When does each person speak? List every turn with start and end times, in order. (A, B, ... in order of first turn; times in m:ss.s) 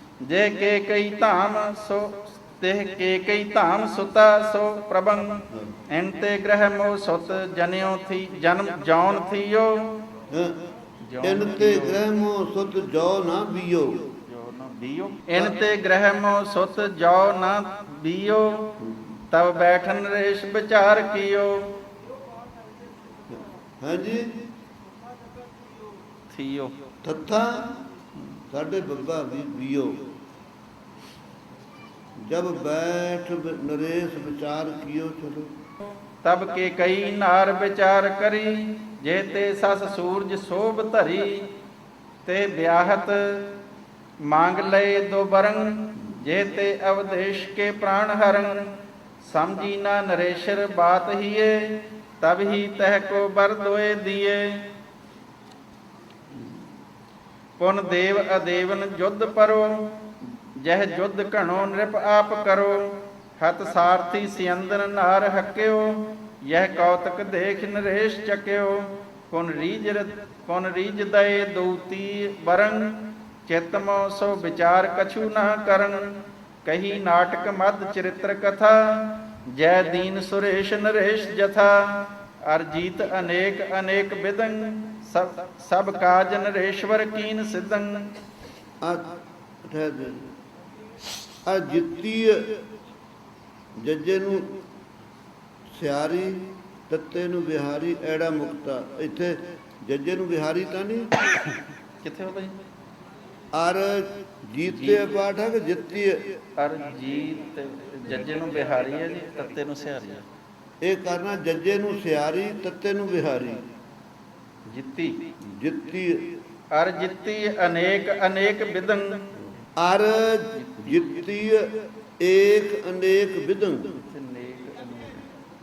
0:00.2-0:10.0 A
0:10.3-0:10.7 B
0:11.0-0:12.0 A
0:11.2-0:14.1 B
0:14.3-0:18.8 A
0:15.3-0:15.6 B
0:19.3-0:21.8 A
0:23.3-0:24.5 B
0:26.3-0:26.8 A
0:27.0-0:27.8 B
0:28.5-0:30.1 B
0:32.2-0:35.5 B
0:36.2-0:41.5 A
0:42.2-0:43.6 A
0:44.2-0:54.8 A
0:57.6-1:28.1 A
1:28.8-1:30.3 B
1:31.4-1:32.6 B
1:33.8-1:34.6 B
1:35.7-1:41.1 B
1:42.0-1:42.5 A
1:43.5-1:46.4 B
1:44.6-1:45.0 A
1:46.6-1:50.2 A
1:50.8-1:53.6 B
1:54.7-1:55.3 A
1:55.4-1:56.4 B
1:56.7-1:59.3 A
1:59.8-2:04.0 B
2:00.5-2:01.2 A
2:03.9-2:05.3 A